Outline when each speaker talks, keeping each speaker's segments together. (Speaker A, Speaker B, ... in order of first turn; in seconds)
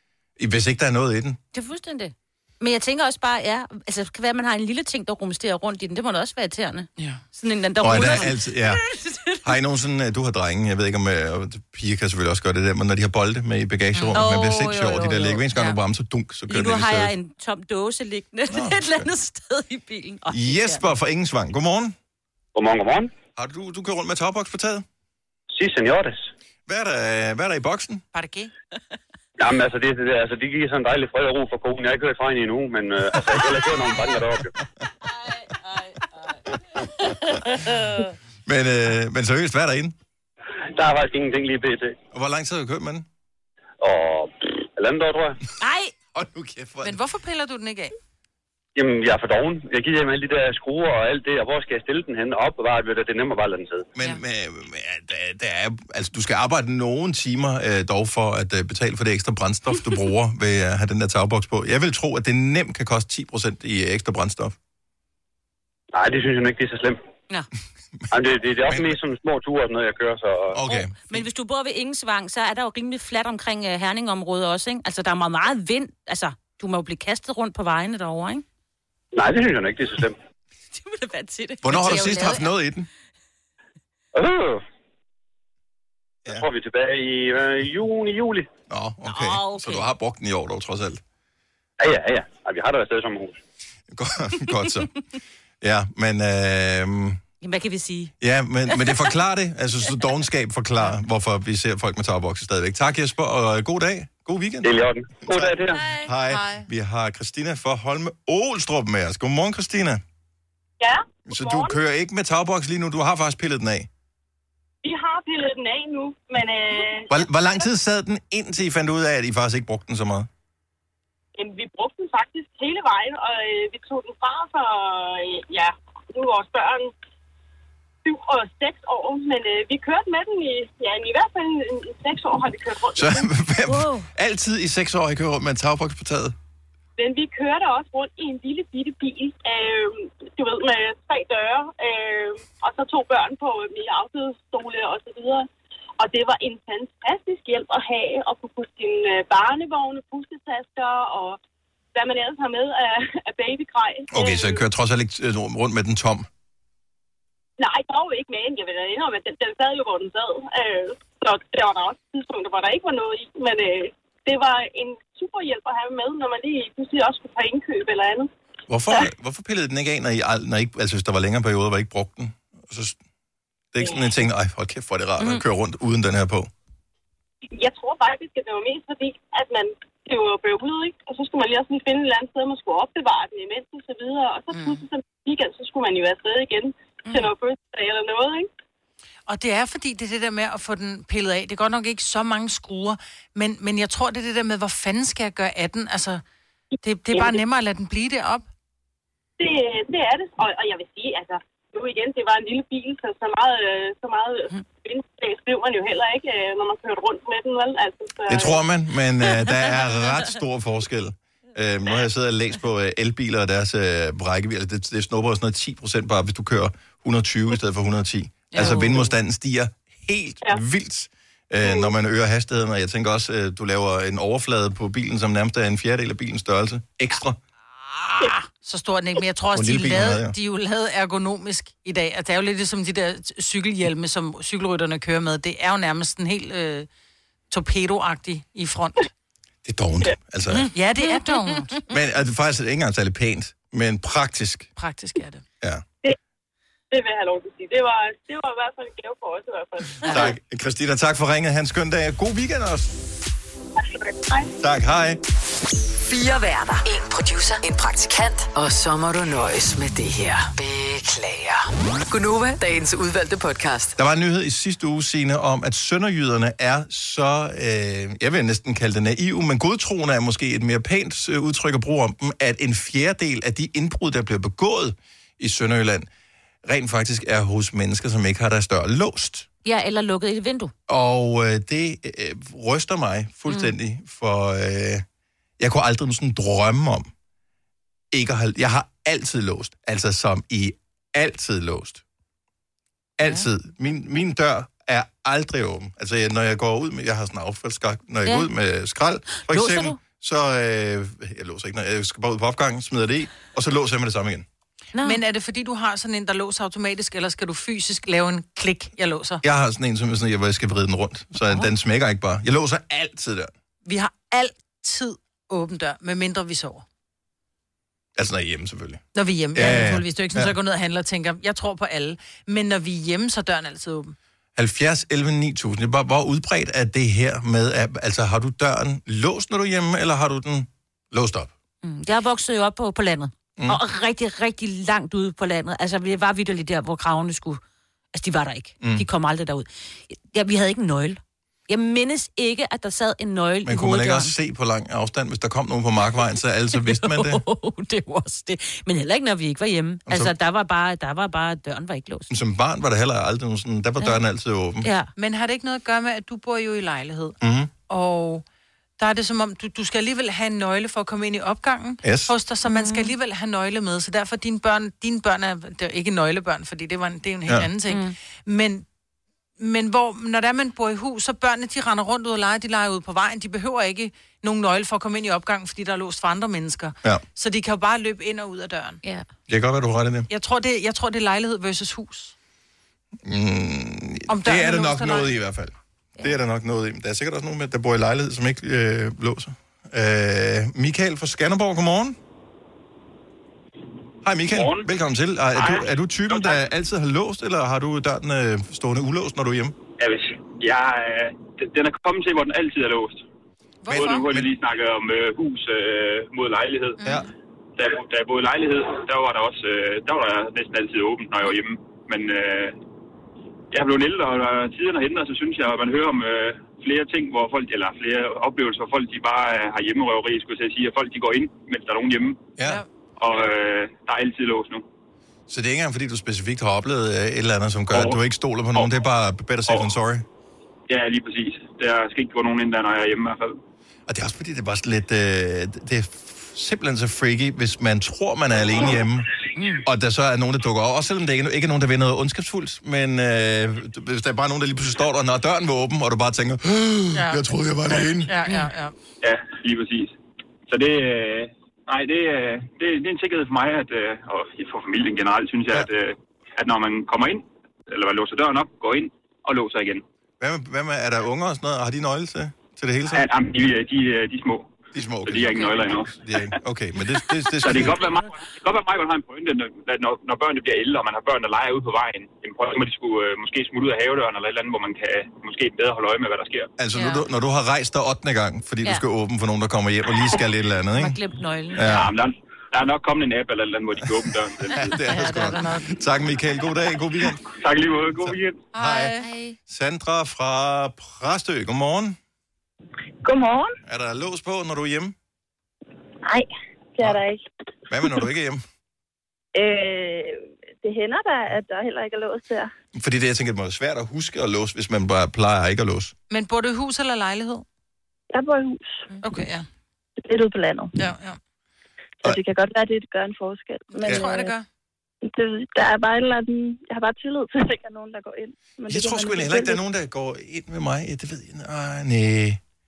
Speaker A: 0.4-1.4, 7.8-8.8, 9.4-17.1, 18.5-19.1, 20.3-21.9, 23.4-24.9, 26.7-28.0, 38.5-39.9, 42.1-43.0, 46.1-47.0, 53.9-64.5, 68.7-69.0, 70.5-71.2, 81.6-82.9, 88.7-91.0, 93.9-94.9, 95.6-97.2, 98.2-110.0, 111.3-113.9, 117.1-120.3, 132.9-136.3, 154.1-156.3, 168.7-173.0, 173.7-176.5, 208.3-227.4, 229.5-230.3, 239.6-240.7, 241.9-244.7, 250.1-252.9, 254.6-255.2, 264.0-276.1, 276.6-279.5, 280.9-285.0, 285.6-287.1, 288.1-292.0, 293.2-304.4, 309.4-313.5, 318.1-319.0, 319.5-320.5, 324.6-331.5, 338.8-339.1, 343.6-347.4, 350.1-350.3, 352.3-354.9, 357.4-357.7, 362.0-362.3, 379.5-380.3, 383.2-392.2, 394.2-399.8, 403.9-404.5, 422.6-422.8, 425.5-430.2, 434.1-439.3, 439.8-448.3, 460.4-463.3, 464.9-468.0, 476.8-481.2, 481.7-482.1, 484.0-487.5, 488.2-489.1, 489.7-492.2, 493.9-495.1, 497.9-498.6, 502.9-506.1, 518.9-522.6
Speaker B: 1.5-9.4, 14.1-15.4, 16.5-20.8, 37.1-37.9, 45.6-45.9, 70.7-78.4, 80.7-82.5, 89.0-89.9, 97.4-98.1, 105.7-106.0, 133.7-134.1, 279.6-280.7, 283.5-283.7, 299.4-300.0, 304.9-305.2, 331.8-337.6, 338.1-344.3, 346.7-352.3, 354.8-355.1, 362.6-363.1, 367.9-368.1, 480.9-482.0, 489.2-489.5
Speaker C: 13.9-14.2, 28.1-28.5, 46.8-48.0, 106.3-106.7, 184.5-184.8, 189.3-196.2, 196.8-198.5, 218.5-219.1, 228.6-236.9, 237.5-239.1, 240.7-241.8, 244.8-245.4, 305.0-309.4, 313.9-316.8, 319.1-324.1, 355.1-357.4, 357.9-358.4, 359.0-368.8, 369.6-379.0, 380.3-382.3, 384.3-385.3, 403.8-404.3, 407.0-407.3, 439.6-439.8, 447.1-447.4, 448.1-448.9, 476.9-477.2, 485.0-485.9, 488.7-489.3, 506.3-507.6, 509.2-509.7, 511.0-511.4, 514.0-514.6
Speaker D: 22.5-23.1, 25.5-26.3, 29.4-34.5, 40.7-42.0, 43.8-45.4, 48.8-53.9, 65.9-67.0, 68.1-70.6, 79.1-80.2, 84.1-84.6, 86.3-88.5, 91.8-93.4, 104.6-105.8
Speaker E: 110.8-111.8, 114.8-117.3, 121.3-126.9, 128.0-133.3, 137.0-145.5, 146.0-151.4, 151.9-154.6, 157.6-168.3, 177.5-188.5, 197.1-197.4, 199.4-208.6, 246.9-250.3, 253.8-254.5
Speaker F: 256.1-263.9
Speaker G: 394.5-394.9, 395.5-396.6, 400.0-403.2, 403.9-407.0, 407.8-412.8, 413.7-422.5, 423.2-424.8, 427.9-428.2, 430.9-433.6, 449.2-450.1, 450.7-460.0, 463.1-466.1, 467.6-476.7, 481.8-484.8, 487.5-488.7
Speaker H: 493.2-493.7, 496.2-497.4, 499.5-502.7, 508.3-509.0, 510.2-510.9, 512.2-514.5, 515.2-519.8